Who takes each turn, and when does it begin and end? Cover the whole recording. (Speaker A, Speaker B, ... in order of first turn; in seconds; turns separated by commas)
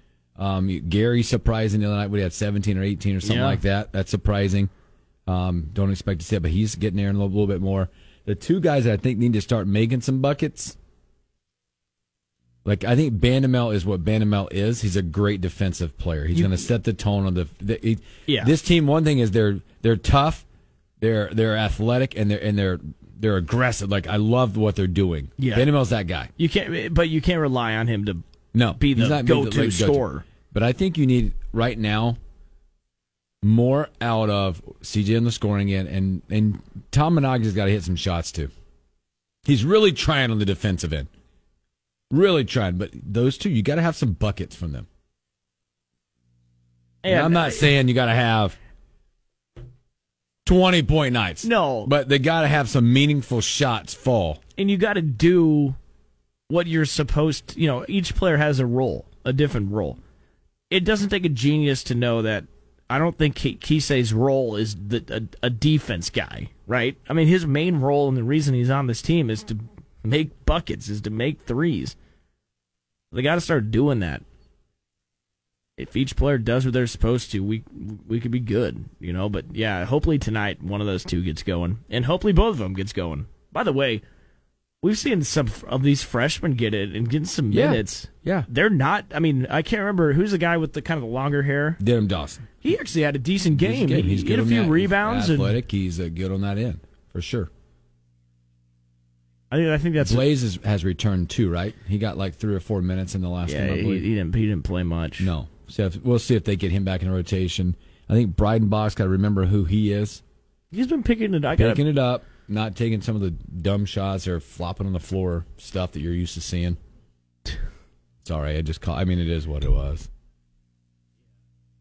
Speaker A: 0.4-4.7, Speaker B: 3.2-3.6, Speaker A: 5.3-10.8, Speaker A: 12.7-20.4, Speaker B: 16.3-16.6, Speaker B: 18.3-18.5, Speaker A: 21.0-26.3, Speaker B: 25.4-25.7, Speaker B: 26.4-30.2, Speaker A: 28.5-32.2, Speaker A: 33.4-38.5, Speaker A: 39.5-41.1, Speaker A: 42.1-44.9, Speaker B: 47.0-47.7, Speaker A: 47.0-48.6, Speaker A: 50.4-54.4, Speaker B: 51.4-51.9, Speaker B: 54.6-55.8, Speaker B: 56.5-60.0, Speaker B: 60.7-72.0, Speaker B: 73.1-74.2, Speaker B: 75.8-84.0, Speaker B: 84.8-91.8, Speaker A: 87.5-88.5, Speaker A: 91.8-92.5, Speaker B: 92.6-95.6, Speaker A: 93.5-97.5, Speaker B: 99.5-100.3, Speaker A: 100.0-104.1, Speaker B: 103.4-105.3, Speaker A: 105.2-110.2, Speaker B: 110.7-111.8, Speaker A: 111.6-116.8, Speaker A: 118.2-120.1